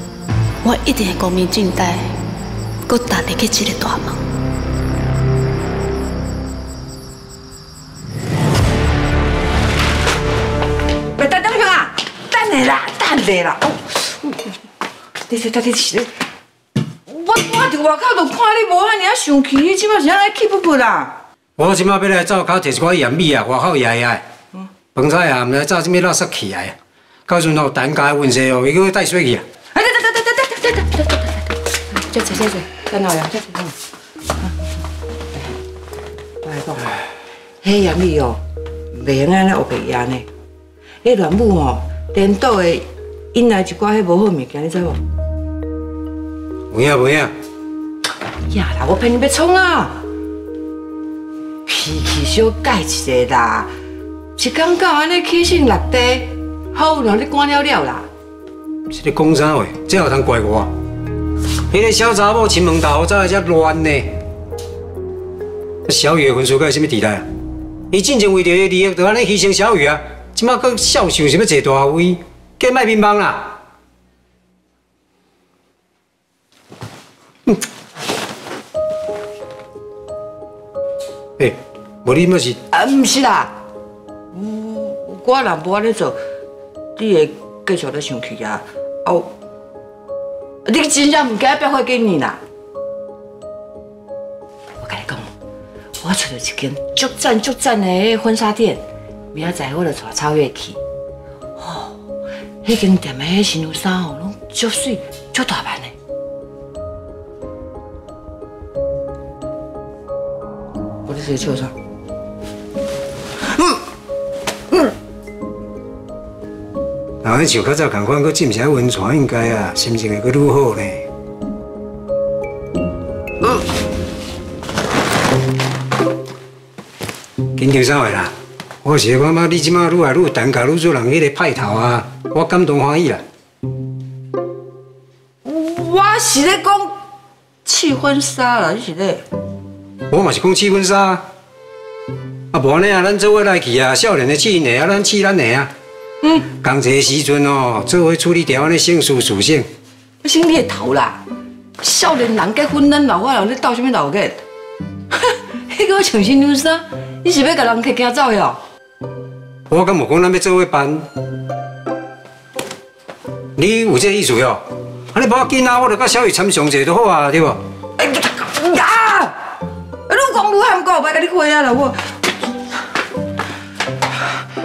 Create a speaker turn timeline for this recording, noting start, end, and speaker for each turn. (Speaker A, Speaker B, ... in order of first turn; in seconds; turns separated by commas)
Speaker A: 0.6-2.1, Speaker A: 2.9-4.2, Speaker B: 11.2-14.4, Speaker B: 15.3-16.2, Speaker B: 17.1-21.2, Speaker C: 21.6-24.2, Speaker C: 24.9-26.8, Speaker C: 27.3-29.4, Speaker B: 29.7-33.8, Speaker B: 36.4-37.0, Speaker B: 37.6-38.4, Speaker B: 38.9-40.3, Speaker B: 41.0-45.0, Speaker C: 46.7-47.3, Speaker B: 48.5-50.0, Speaker B: 51.7-53.7, Speaker B: 54.4-58.1, Speaker C: 58.9-60.7, Speaker C: 61.7-64.2, Speaker C: 65.9-67.3, Speaker C: 67.9-73.6, Speaker C: 81.4-82.6, Speaker B: 82.7-83.6, Speaker B: 84.3-86.2, Speaker B: 87.0-89.3, Speaker B: 90.7-92.4, Speaker B: 94.8-95.3, Speaker B: 96.0-100.8, Speaker B: 101.6-102.0, Speaker B: 102.6-106.0, Speaker B: 111.1-111.8, Speaker C: 117.2-121.1, Speaker C: 127.6-128.3, Speaker C: 128.8-133.2, Speaker B: 135.4-137.0, Speaker B: 137.7-139.3, Speaker C: 140.1-141.2, Speaker C: 142.5-145.7, Speaker C: 146.4-149.7, Speaker B: 150.2-151.2, Speaker B: 151.8-154.4, Speaker B: 155.1-158.6, Speaker C: 159.7-161.1, Speaker C: 163.6-167.6, Speaker B: 168.0-169.4, Speaker B: 170.1-172.2